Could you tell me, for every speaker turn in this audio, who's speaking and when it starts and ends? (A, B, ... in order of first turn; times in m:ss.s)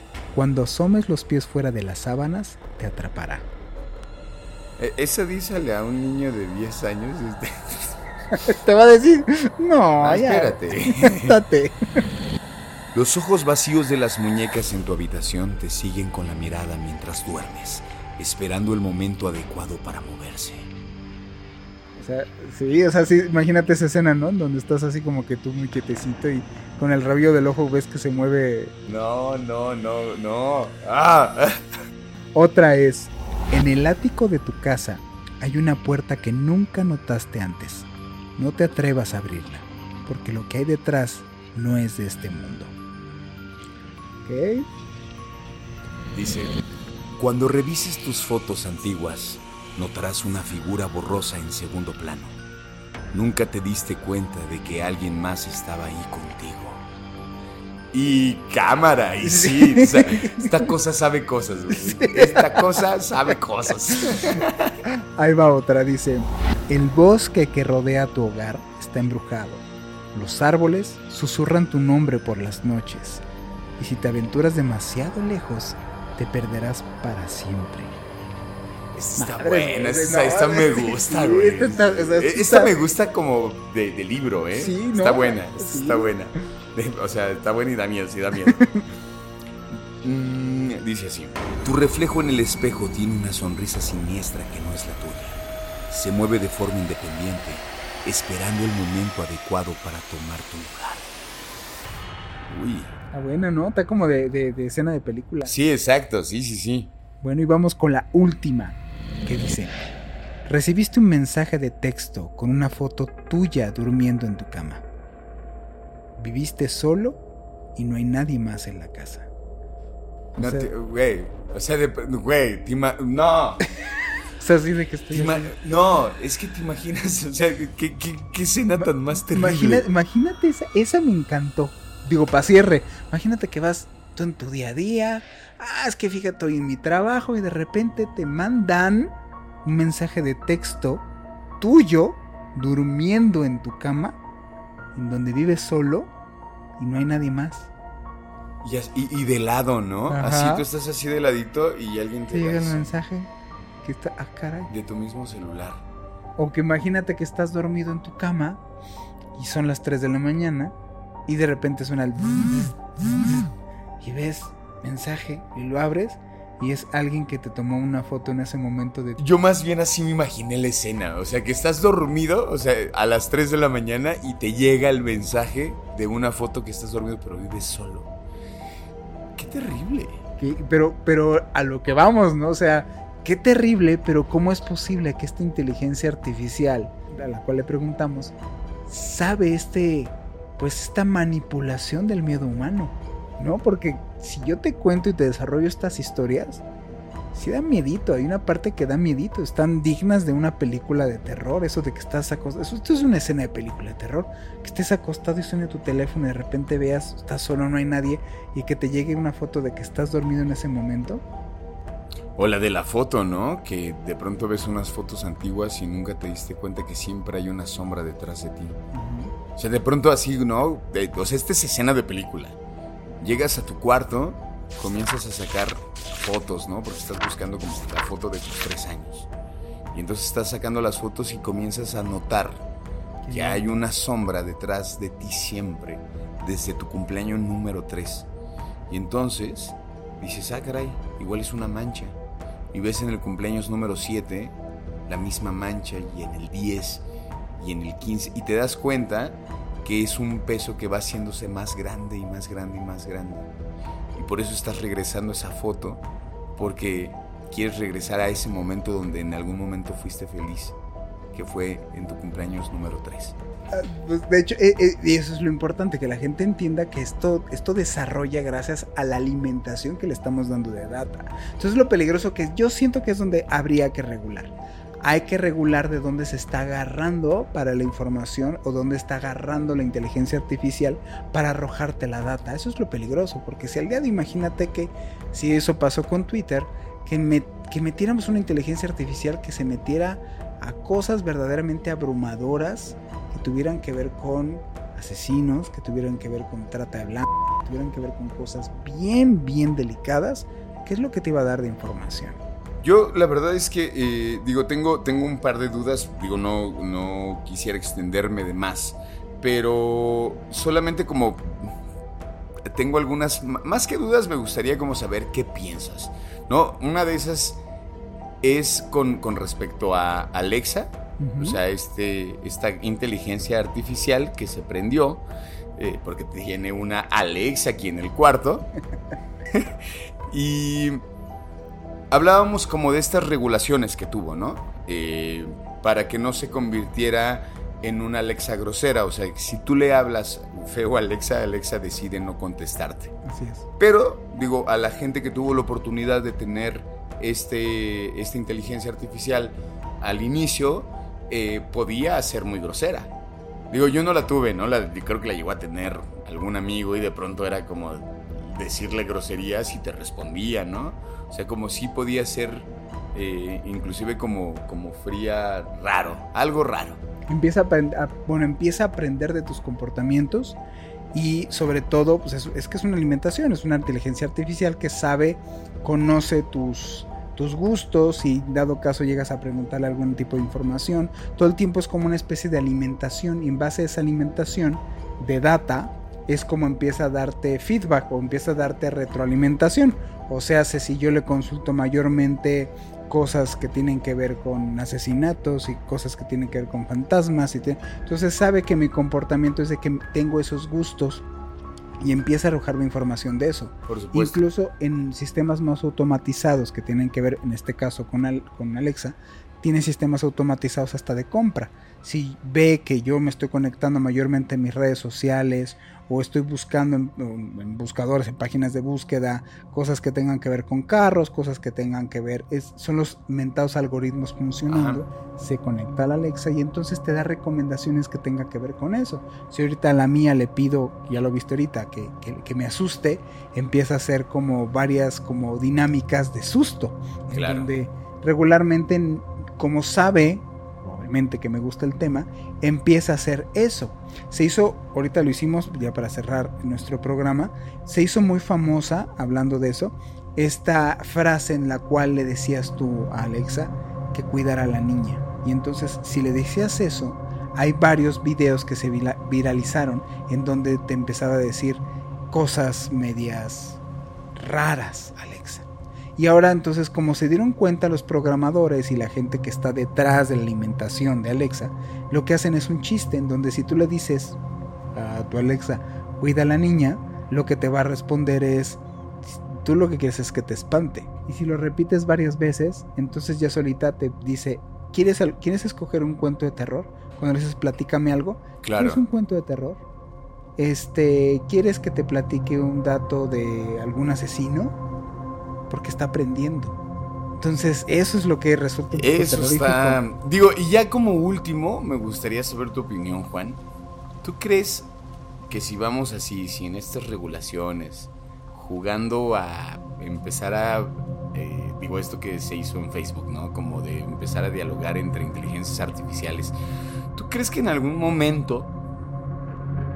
0:00.3-0:03.5 A
0:04.8-0:08.0 B
0:08.4-0:11.8 A
0:10.0-0:11.4 B
0:12.9-0:20.7 B
0:22.0-0:28.7 A
0:28.8-0:31.6 B
0:32.3-0:42.7 A
0:44.2-0:44.7 A
0:46.1-0:46.6 B
0:47.2-0:52.4 B
0:53.1-0:56.8 B
0:57.9-1:04.7 B
0:59.2-1:00.6 A
1:01.8-1:02.6 A
1:05.2-1:13.2 A
1:13.8-1:18.0 A
1:18.9-1:28.8 B
1:19.2-1:22.8 A
1:24.5-1:26.1 A
1:30.0-1:41.1 B
1:42.5-1:42.9 B
1:43.1-1:45.5 A
1:45.4-1:46.9 B
1:47.2-1:49.8 A
1:50.4-1:54.8 A
1:56.2-1:57.2 A
1:57.8-1:59.3 A
2:00.4-2:00.7 A
2:00.4-2:03.7 B
2:04.4-2:05.5 A
2:05.1-2:09.8 B
2:08.8-2:21.0 A
2:21.6-2:24.2 A
2:25.0-2:26.1 A
2:26.8-2:27.7 A
2:28.6-2:32.9 B
2:30.1-2:30.7 A
2:32.3-2:33.3 A
2:33.8-2:34.7 A
2:34.7-2:35.8 B
2:36.4-2:38.6 A
2:39.4-2:40.8 A
2:41.3-2:43.5 A
2:44.0-2:49.2 A
2:49.2-2:58.1 B
2:59.4-3:00.2 B
3:00.4-3:08.4 A
3:08.9-3:16.6 A
3:17.3-3:31.2 A
3:32.4-3:38.8 B
3:38.9-3:39.3 A
3:39.6-3:42.6 B
3:43.2-3:49.3 B
3:49.9-3:52.6 B
3:53.2-3:53.8 A
3:53.3-3:58.3 B
3:58.9-4:02.2 B
4:02.7-4:04.6 B
4:05.1-4:07.0 B
4:07.6-4:13.5 B
4:14.2-4:16.0 B
4:16.6-4:20.8 B
4:21.3-4:23.4 B
4:23.7-5:02.4 A
5:02.8-5:11.7 B
5:12.7-5:17.6 B
5:18.4-5:25.3 B
5:21.2-5:21.6 A
5:25.8-5:28.7 B
5:30.3-5:31.0 B
5:32.1-5:43.1 B
5:43.2-5:43.7 A
5:43.8-5:53.1 B
5:53.7-6:07.0 B
6:07.3-6:10.6 A
6:11.1-6:41.2 A
6:42.0-7:43.8 A
6:43.9-6:44.4 B
7:04.7-7:05.0 B
7:17.3-7:17.7 B
7:44.4-7:54.4 A
7:54.9-8:09.8 A
8:08.6-8:09.0 B
8:10.6-8:14.8 A
8:15.7-8:16.8 A
8:17.4-8:20.0 A
8:19.0-8:23.6 B
8:24.2-8:24.9 B
8:25.5-8:36.6 B
8:37.2-8:38.7 B